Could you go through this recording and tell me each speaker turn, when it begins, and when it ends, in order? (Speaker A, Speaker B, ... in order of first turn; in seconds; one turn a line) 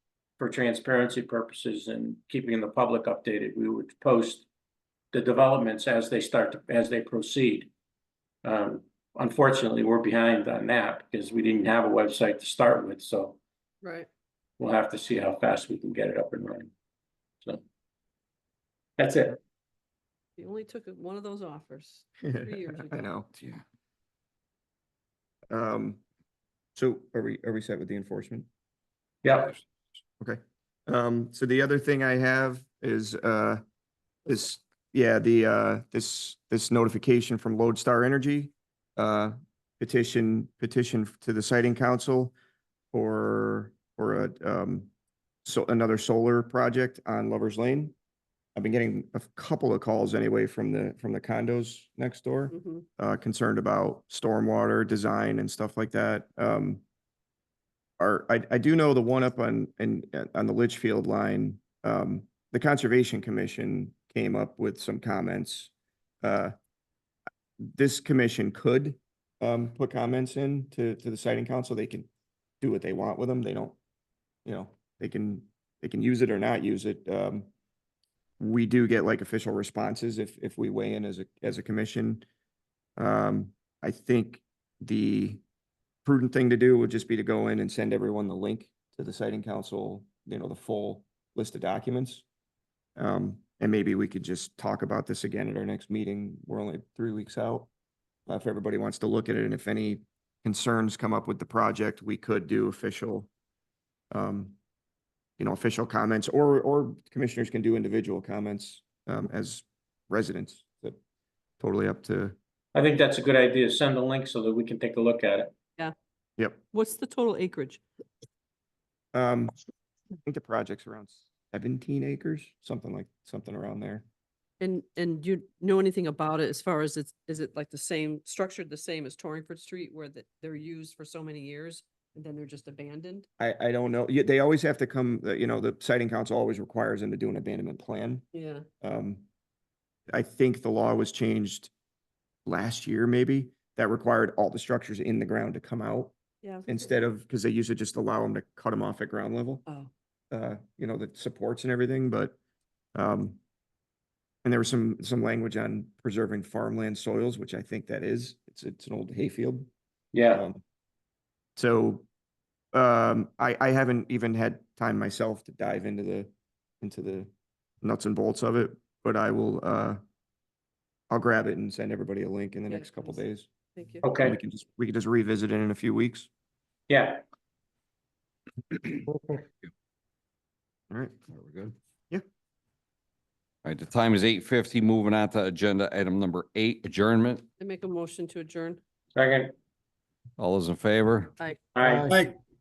Speaker A: 0.4-4.5
Speaker A: 5.1-7.7
Speaker A: 8.4-13.4
Speaker B: 13.8-14.1
Speaker A: 14.6-16.7
Speaker A: 19.0-19.4
Speaker B: 20.4-23.1
Speaker C: 22.2-23.3
Speaker D: 23.3-23.6
Speaker C: 25.5-26.0
Speaker C: 26.8-28.5
Speaker A: 29.2-29.6
Speaker C: 30.2-33.6
Speaker C: 34.3-42.4
Speaker C: 42.9-44.9
Speaker C: 45.5-48.0
Speaker C: 48.6-56.8
Speaker B: 52.5-52.9
Speaker C: 58.0-65.7
Speaker C: 66.2-66.5
Speaker C: 67.6-72.1
Speaker C: 72.6-73.8
Speaker C: 74.5-77.5
Speaker C: 78.4-82.3
Speaker C: 83.0-85.4
Speaker C: 86.0-92.2
Speaker C: 93.0-97.7
Speaker C: 98.3-103.3
Speaker C: 104.1-104.6
Speaker C: 105.4-111.0
Speaker C: 111.6-112.4
Speaker A: 112.8-115.5
Speaker C: 116.4-116.6
Speaker B: 116.7-117.8
Speaker C: 119.1-119.6
Speaker C: 120.3-124.0
Speaker B: 124.6-133.3
Speaker C: 133.4-138.2
Speaker B: 138.3-138.7
Speaker C: 138.8-139.3
Speaker C: 140.1-141.7
Speaker C: 142.4-146.1
Speaker B: 146.4-146.9
Speaker C: 146.7-149.7
Speaker C: 150.3-152.4
Speaker C: 152.9-153.4
Speaker C: 154.4-159.7
Speaker A: 160.1-160.4
Speaker C: 160.3-160.6
Speaker C: 161.6-162.1
Speaker C: 162.7-167.3
Speaker C: 167.8-170.0
Speaker C: 171.1-173.5
Speaker B: 172.7-173.2
Speaker B: 173.8-174.1
Speaker A: 174.0-174.4
Speaker C: 174.2-176.3
Speaker A: 176.9-177.2
Speaker D: 178.9-179.7
Speaker C: 180.9-181.2
Speaker D: 181.3-181.8
Speaker D: 183.6-187.5
Speaker B: 187.6-188.8
Speaker A: 189.2-189.5
Speaker D: 190.4-191.3
Speaker A: 191.8-192.2
Speaker D: 191.9-192.1